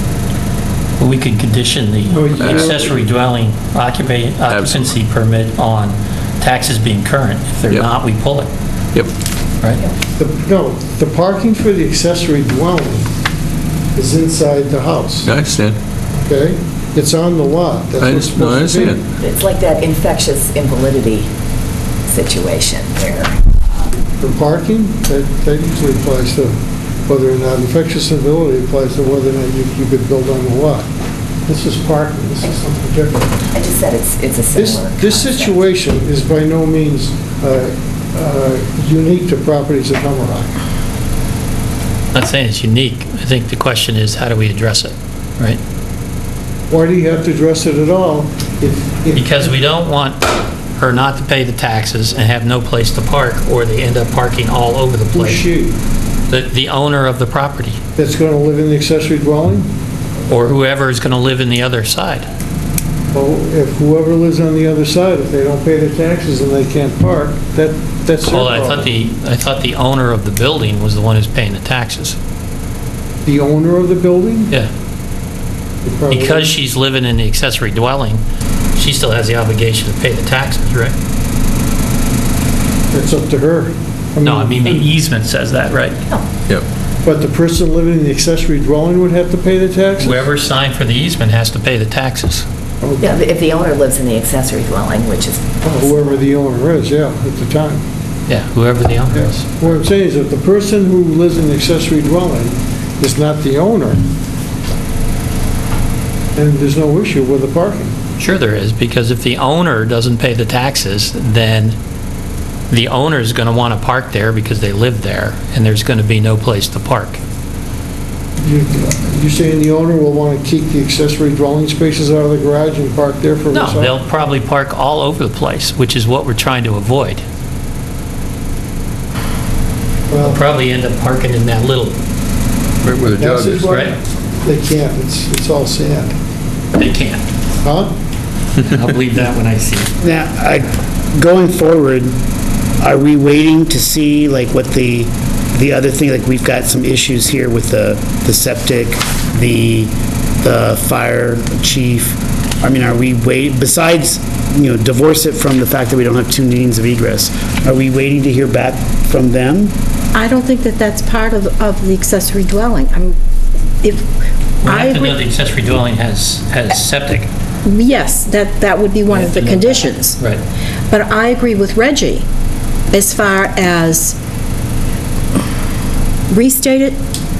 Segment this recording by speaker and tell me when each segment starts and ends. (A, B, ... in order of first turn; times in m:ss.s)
0:01.0-0:08.5 A
0:02.1-0:03.0 B
0:02.4-0:02.8 C
0:04.5-0:04.9 C
0:10.2-0:13.1 B
0:13.9-0:15.3 B
0:15.2-0:15.8 C
0:16.2-0:19.0 B
0:18.0-0:19.1 C
0:19.2-0:21.3 D
0:22.0-0:23.4 D
0:24.2-0:30.9 B
0:31.5-0:33.4 B
0:33.5-0:35.6 D
0:34.5-0:40.5 B
0:42.1-0:45.6 A
0:46.7-0:49.6 B
0:49.1-0:50.2 A
0:50.8-0:55.4 A
0:55.1-0:55.8 B
0:56.3-0:57.8 A
0:58.0-0:59.7 B
1:00.3-1:02.3 A
1:03.1-1:08.9 B
1:08.2-1:12.2 A
1:13.2-1:14.5 B
1:15.8-1:16.5 B
1:16.1-1:18.2 A
1:18.7-1:20.9 A
1:22.9-1:24.9 B
1:24.2-1:26.0 A
1:27.0-1:30.2 B
1:30.0-1:32.4 A
1:32.8-1:33.2 B
1:33.0-1:35.5 D
1:35.6-1:37.8 B
1:38.3-1:39.8 A
1:39.1-1:44.0 B
1:46.4-1:47.9 B
1:48.2-1:51.8 A
1:52.7-1:57.2 A
1:58.4-2:04.0 B
2:03.5-2:07.2 A
2:10.1-2:10.4 B
2:10.2-2:12.0 A
2:12.8-2:13.7 C
2:13.1-2:16.1 B
2:13.6-2:14.0 A
2:16.7-2:17.2 A
2:17.6-2:17.9 B
2:18.6-2:19.9 A
2:20.0-2:22.1 E
2:22.8-2:39.7 E
2:40.1-2:43.1 F
2:44.6-2:47.3 A
2:44.6-2:45.2 F
2:47.6-2:50.2 F
2:49.1-2:50.4 A
2:50.9-2:52.2 F
2:52.9-2:54.2 F
2:56.3-2:57.0 F